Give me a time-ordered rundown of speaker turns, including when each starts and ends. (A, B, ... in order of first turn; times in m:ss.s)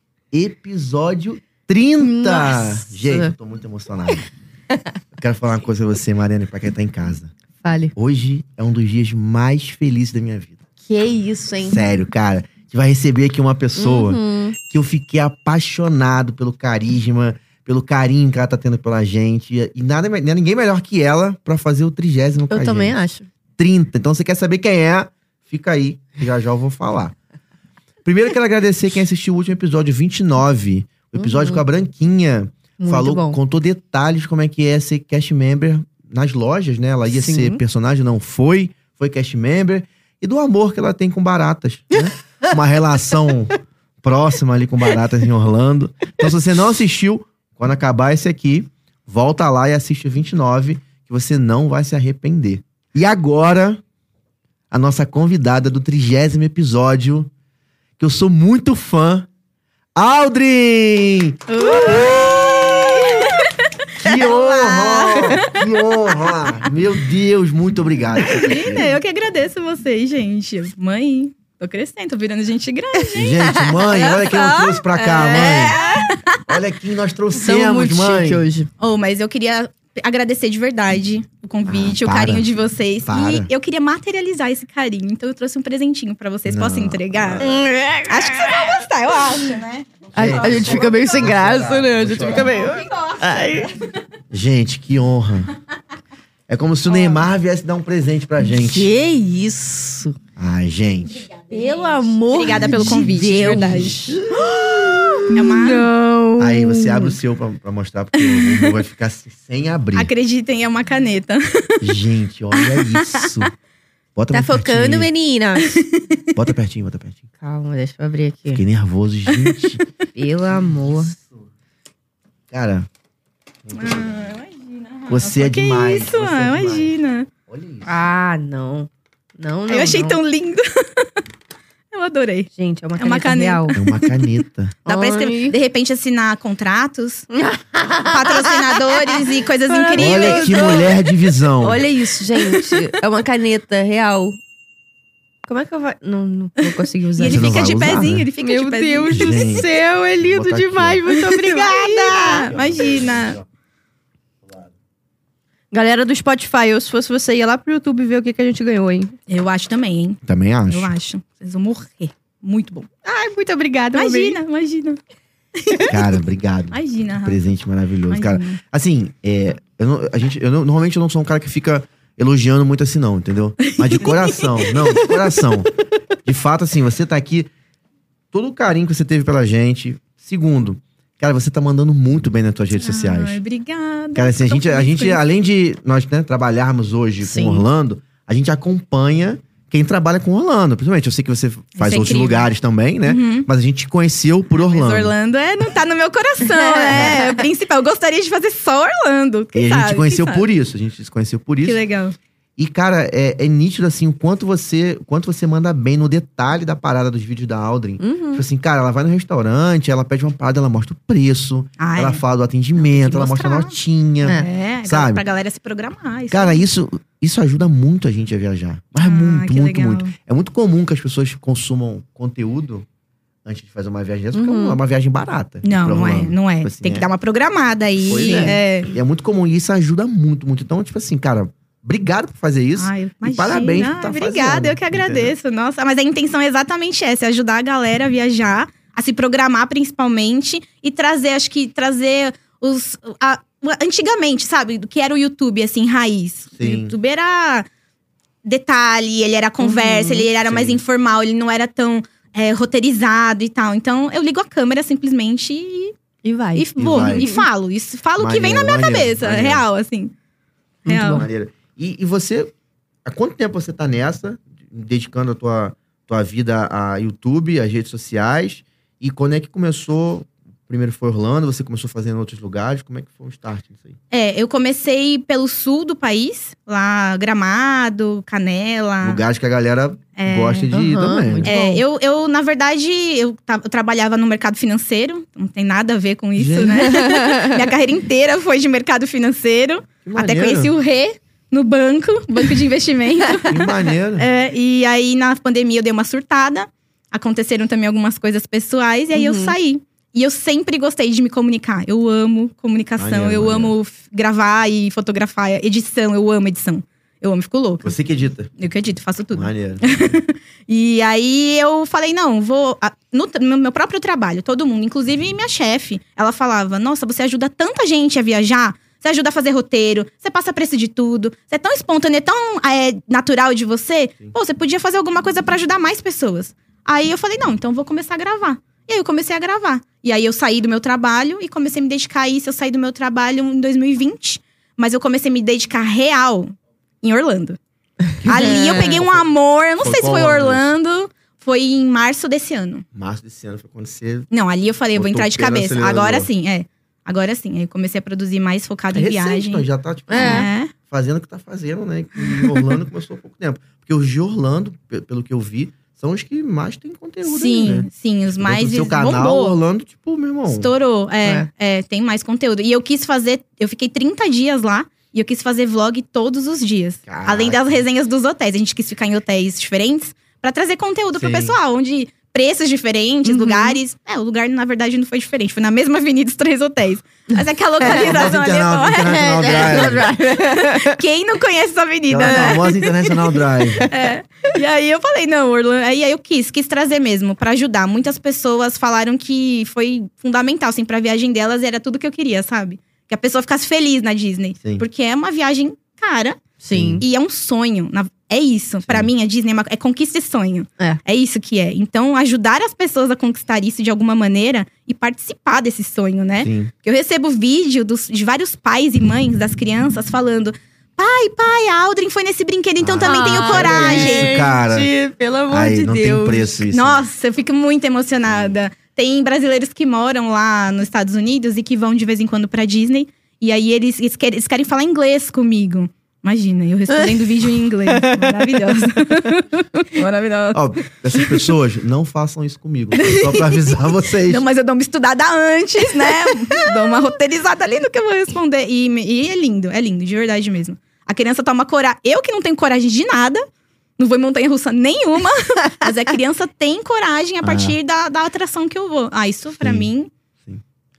0:00.3-0:04.2 A
0:02.0-0:03.3 B
0:05.2-0:07.3 A
0:07.6-0:07.9 B
0:08.0-0:10.6 A
0:10.9-0:11.8 B
0:11.6-0:23.0 A
0:13.8-0:14.6 B
0:22.5-0:23.3 B
0:23.6-0:27.1 A
0:28.0-0:53.8 A
0:31.2-0:31.6 B
0:32.8-0:33.4 B
0:37.1-0:37.6 B
0:54.7-0:57.3 A
0:58.0-0:59.3 A
1:00.0-1:03.3 A
1:01.5-1:05.7 C
1:01.6-1:02.2 B
1:04.0-1:09.0 A
1:08.3-1:16.5 C
1:13.1-1:15.8 A
1:13.4-1:16.1 B
1:16.5-1:18.4 A
1:17.3-1:18.7 B
1:18.8-1:27.5 C
1:21.7-1:22.5 A
1:23.1-1:23.5 A
1:26.5-1:27.5 A
1:27.4-1:28.7 B
1:28.1-1:31.0 C
1:30.1-1:32.6 A
1:30.1-1:33.7 B
1:32.4-1:33.2 C
1:34.3-1:35.5 A
1:36.5-1:38.9 A
1:36.9-1:37.2 B
1:38.4-1:40.2 B
1:40.4-1:41.3 A
1:41.5-1:47.2 B
1:42.3-1:44.0 C
1:42.5-1:45.4 A
1:45.3-1:45.9 C
1:46.4-1:50.1 A
1:50.0-1:51.9 C
1:51.8-1:53.5 A
1:52.5-1:53.5 C
1:54.2-1:55.1 A
1:54.3-1:55.8 B
1:55.7-1:56.3 C
1:56.4-1:57.2 A
1:57.4-1:58.6 B
1:58.5-1:59.8 A
1:59.3-1:59.7 C
2:00.1-2:01.1 B
2:02.5-2:02.9 A
2:03.6-2:04.2 A
2:03.7-2:07.3 C
2:05.1-2:06.9 A
2:07.5-2:07.9 A
2:07.8-2:10.2 B
2:09.7-2:11.1 C
2:11.9-2:14.1 C
2:12.5-2:13.8 B
2:13.7-2:14.7 A
2:14.8-2:15.6 B
2:14.8-2:17.3 C
2:17.3-2:20.9 B
2:18.1-2:20.9 C
2:19.9-2:21.8 A
2:21.6-2:24.4 B
2:25.5-2:27.5 B
2:26.6-2:29.5 C
2:27.3-2:28.3 A
2:28.4-2:32.5 B
2:29.1-2:31.0 A
2:31.3-2:33.4 C
2:32.2-2:33.4 A
2:35.7-2:39.1 B
2:39.3-2:42.9 C
2:40.2-2:40.9 A
2:43.0-2:44.4 B
2:43.9-2:45.0 C
2:45.6-2:46.0 C
2:45.9-2:55.7 A
2:46.7-2:47.4 C
2:48.1-2:48.6 C
2:53.7-2:54.5 C
2:56.2-2:57.5 A
2:58.3-3:03.4 A
3:02.7-3:05.2 C
3:04.1-3:15.1 A
3:07.2-3:07.6 B
3:11.8-3:12.5 C
3:13.0-3:13.5 C
3:14.6-3:20.5 C
3:16.4-3:17.4 B
3:19.5-3:21.8 A
3:21.6-3:22.2 C
3:22.6-3:35.2 A
3:28.0-3:28.4 B
3:31.8-3:32.2 C
3:32.8-3:33.7 C
3:34.2-3:34.5 B
3:34.3-3:36.6 C
3:36.3-3:42.8 A
3:39.0-3:40.1 C
3:43.4-3:47.1 A
3:44.3-3:44.8 B
3:45.6-3:48.9 C
3:48.0-3:55.3 A
3:48.1-3:48.6 B
3:52.8-4:07.7 C
4:06.6-4:06.9 A
4:08.4-4:15.9 C
4:09.6-4:10.3 B
4:10.4-4:10.8 A
4:16.2-4:17.4 B
4:16.6-4:20.1 C
4:16.8-4:17.3 A
4:18.2-4:19.6 A
4:20.9-4:21.2 B
4:20.9-4:21.2 C
4:20.9-4:22.5 A
4:23.0-4:34.0 A
4:34.1-4:39.2 C
4:39.0-4:41.5 A
4:40.2-4:40.7 C
4:40.7-4:41.8 B
4:41.4-5:07.9 C
4:46.4-4:46.9 A
4:46.9-4:47.5 B
4:50.0-4:50.7 A
4:53.5-4:54.3 A
4:59.2-4:59.6 B
5:03.0-5:03.8 A
5:07.8-5:08.5 A
5:08.6-5:37.6 C
5:09.3-5:10.2 A
5:38.2-5:39.2 A
5:38.2-5:42.8 C
5:38.3-5:39.0 B
5:39.8-5:40.7 A
5:42.9-5:44.3 A
5:44.3-5:50.7 C
5:44.9-5:46.3 A
5:48.9-6:00.7 A
5:50.1-5:50.5 B
5:52.3-5:52.7 C
5:57.2-5:59.6 C
6:00.5-6:36.4 C
6:07.1-6:07.8 A
6:11.2-6:11.6 A
6:13.2-6:13.8 B
6:17.4-6:18.3 B
6:17.8-6:20.1 A
6:19.0-6:21.0 B
6:22.1-6:23.9 A
6:22.2-6:22.7 B
6:36.6-6:37.0 B
6:36.7-6:37.0 A
6:37.0-6:54.5 C
6:38.8-6:39.1 A
6:46.4-6:46.7 A
6:52.8-6:54.9 A
6:53.0-6:56.5 B
6:55.5-6:57.1 A
6:56.7-7:11.5 C
6:58.3-6:58.6 A
7:06.9-7:08.8 B
7:10.5-7:14.4 A
7:12.9-7:23.4 C
7:24.0-7:30.1 C
7:27.4-7:27.8 A
7:29.6-7:29.9 A